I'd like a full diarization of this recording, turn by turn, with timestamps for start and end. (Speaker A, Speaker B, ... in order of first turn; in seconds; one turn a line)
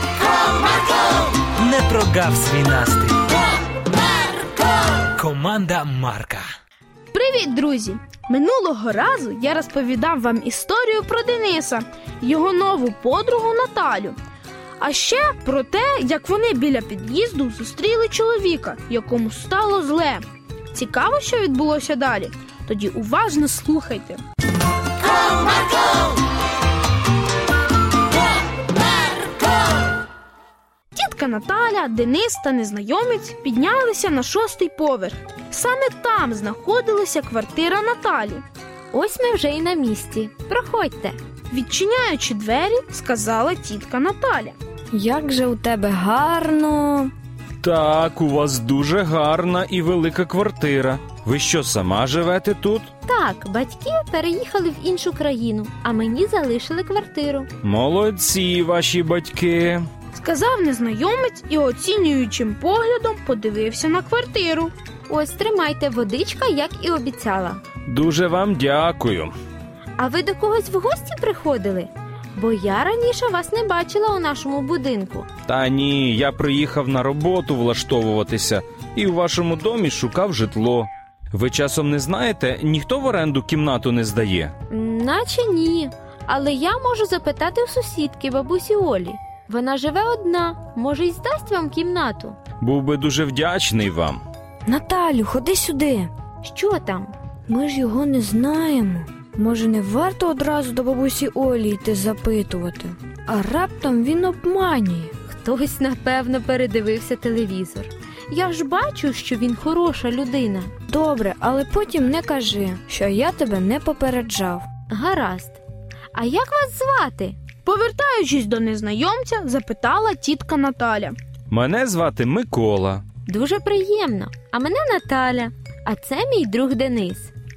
Speaker A: 1.6-3.2
Speaker A: 5.1-6.5
Speaker B: 7.1-14.2
Speaker B: 14.8-24.2
Speaker B: 30.9-38.4
Speaker C: 38.9-41.1
Speaker B: 41.5-44.5
Speaker D: 44.9-47.1
Speaker E: 47.6-52.9
Speaker C: 53.0-57.5
Speaker E: 57.6-59.8
Speaker B: 60.1-64.7
Speaker C: 65.1-67.6
Speaker E: 67.9-69.3
Speaker C: 70.0-75.3
Speaker E: 75.5-84.5
Speaker C: 84.7-92.4
Speaker E: 92.6-94.2
Speaker D: 94.7-96.1
Speaker C: 96.4-97.1
Speaker D: 97.5-105.1
Speaker C: 105.2-110.7
Speaker D: 110.9-114.6
Speaker C: 114.9-115.6
Speaker C: 116.1-117.4
Speaker B: 117.6-121.1
Speaker E: 121.5-123.0
Speaker C: 123.3-127.3